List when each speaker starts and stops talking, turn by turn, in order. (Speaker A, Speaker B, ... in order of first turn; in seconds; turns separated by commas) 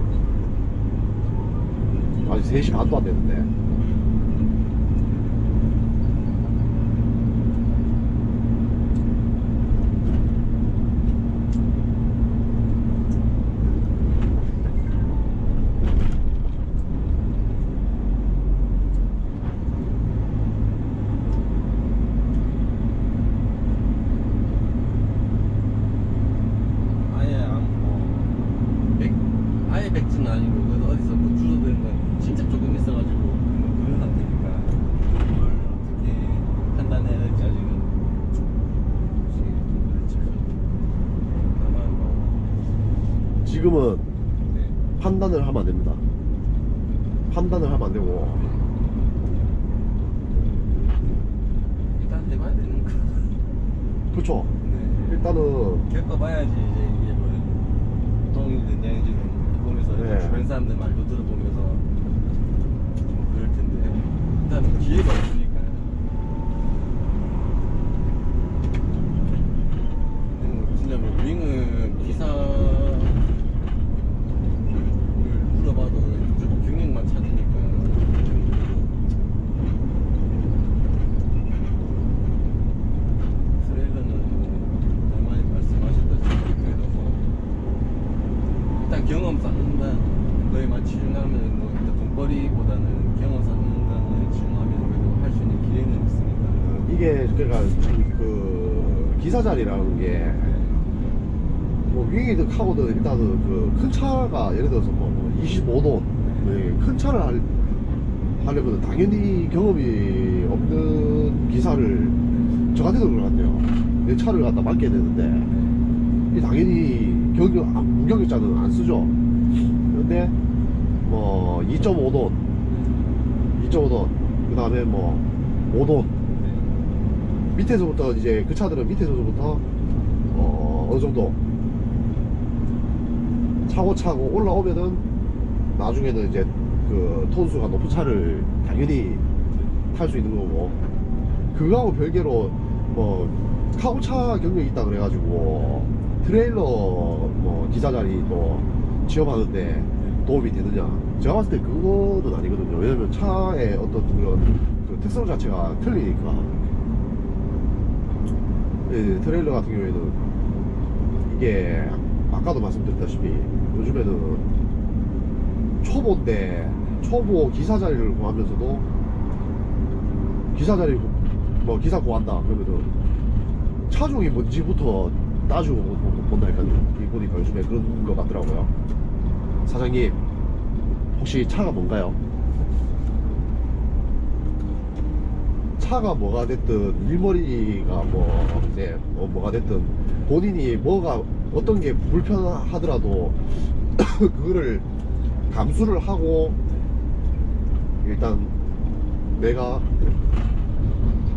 Speaker A: 1.9-2.2, Speaker B: 2.2-3.5, Speaker A: 27.0-28.3, Speaker A: 28.9-37.9, Speaker A: 39.1-40.5, Speaker A: 41.3-42.4, Speaker B: 43.4-44.1, Speaker A: 44.5-44.8, Speaker B: 45.0-46.0, Speaker B: 47.3-48.4, Speaker A: 48.3-48.6, Speaker A: 52.0-53.4, Speaker B: 54.1-54.5, Speaker A: 54.6-55.3, Speaker B: 55.1-55.9, Speaker A: 55.9-57.6, Speaker A: 58.2-61.8, Speaker B: 59.9-60.4, Speaker A: 63.1-66.0, Speaker A: 70.3-73.3, Speaker A: 75.1-78.8, Speaker A: 83.6-87.2, Speaker A: 88.8-96.7, Speaker B: 96.6-100.5, Speaker A: 100.4-100.9, Speaker B: 101.8-107.5, Speaker A: 106.2-106.6, Speaker B: 108.4-112.2, Speaker A: 112.3-112.6, Speaker B: 112.7-115.5, Speaker A: 115.5-115.9, Speaker B: 116.3-119.1, Speaker B: 119.9-120.3, Speaker B: 121.0-122.4, Speaker A: 122.7-123.0, Speaker B: 123.5-126.1, Speaker A: 126.3-126.7, Speaker B: 127.5-129.6, Speaker B: 130.3-131.4, Speaker B: 133.7-135.0, Speaker B: 135.7-139.2, Speaker A: 139.5-139.8, Speaker B: 139.9-140.8, Speaker B: 141.5-156.5, Speaker A: 150.0-150.2, Speaker A: 156.5-156.9, Speaker B: 158.8-160.2, Speaker B: 161.2-164.4, Speaker B: 165.8-168.8, Speaker A: 166.8-167.1, Speaker B: 170.5-172.9, Speaker B: 173.9-178.7, Speaker B: 179.7-180.2, Speaker B: 181.2-182.2, Speaker B: 185.8-194.8, Speaker B: 195.5-196.6, Speaker A: 196.6-196.9, Speaker B: 198.0-198.5, Speaker B: 199.3-199.9